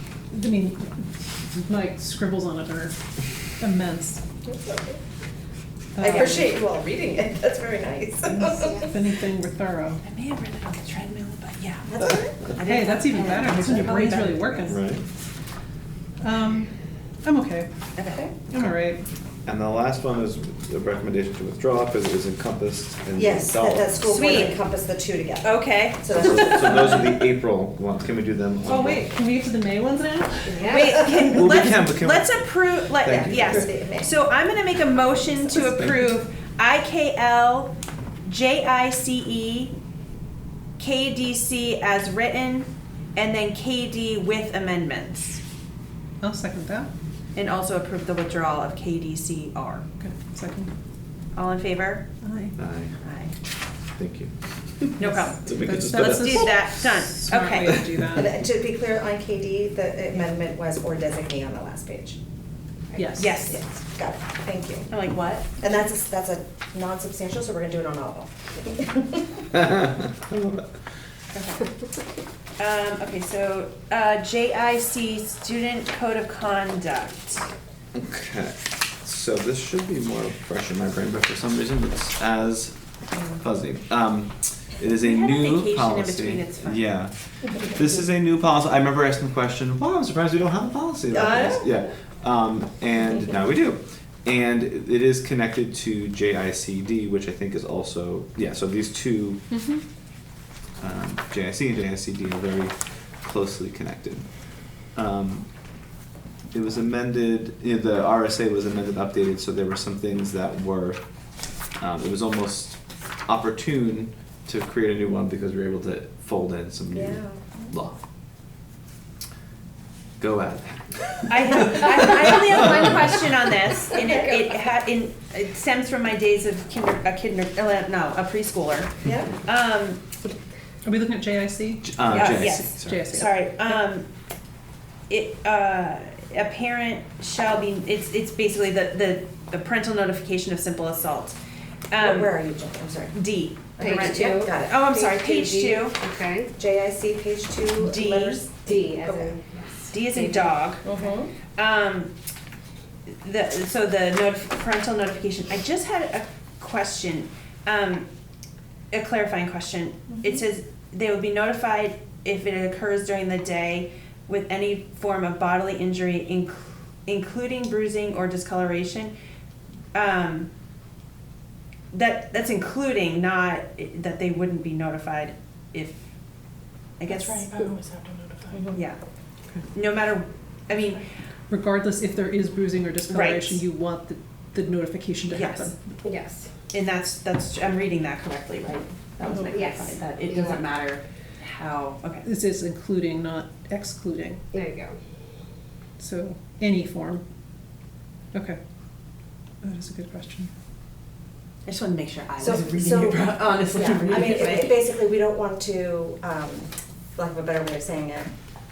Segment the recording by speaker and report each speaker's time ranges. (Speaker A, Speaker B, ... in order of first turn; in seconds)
Speaker A: 0.3-3.0, 3.6-4.2, 6.0-6.5, 8.5-10.0, 12.6-14.9, 16.2-17.7, 18.5-19.0, 28.6-31.5, 46.2-46.9, 50.0-50.7, 52.2-52.5, 55.0-58.4, 62.9-63.6, 99.5-99.8, 130.8-133.8, 177.1-178.7, 181.5-185.8, 192.2-194.4, 196.0-197.2, 198.3-198.6, 199.6-200.5
Speaker B: 4.4-5.0, 6.0-8.9, 11.8-12.6, 18.1-18.4, 23.1-26.9, 33.0-34.1, 58.1-62.2, 63.8-64.9, 65.6-69.4, 83.2-83.4, 91.1-91.7, 116.9-117.7, 123.9-124.3, 129.0-129.3, 142.0-143.2, 143.8-145.2, 146.6-149.3, 150.8-151.3, 160.1-160.4, 202.4-208.3
Speaker C: 6.0-6.3, 10.0-14.8, 17.9-18.2, 24.0-24.6, 25.4-27.3, 30.6-37.7, 38.2-39.7, 40.8-45.4, 47.3-49.8, 51.3-52.1, 53.0-53.3, 55.0-57.8, 63.2-63.6, 64.9-65.5, 71.3-71.7, 72.6-77.5, 85.0-86.9, 121.3-128.9, 129.4-130.0, 132.1-134.1, 135.1-141.4, 141.9-142.4, 143.1-146.0, 147.8-148.4, 149.9-150.8, 151.5-152.1, 153.2-158.1, 158.9-169.1, 169.9-170.5, 171.9-176.0, 177.0-177.6, 178.7-179.0, 179.7-181.0, 183.1-183.6, 185.3-185.7, 186.7-192.2, 201.7-204.8
Speaker D: 14.7-15.0, 19.4-23.8, 26.2-29.1, 31.4-33.7, 35.5-36.1, 52.6-52.9, 54.0-54.3, 55.4-56.9, 57.7-58.0, 69.5-70.7, 77.9-82.8, 83.4-99.4, 100.8-104.2, 104.9-105.5, 106.5-111.0, 111.8-118.0, 120.2-123.2, 131.9-132.8
Speaker E: 30.5-31.0, 143.8-144.5, 145.1-146.5, 148.6-150.6, 186.0-186.5, 189.4-190.6, 194.5-195.0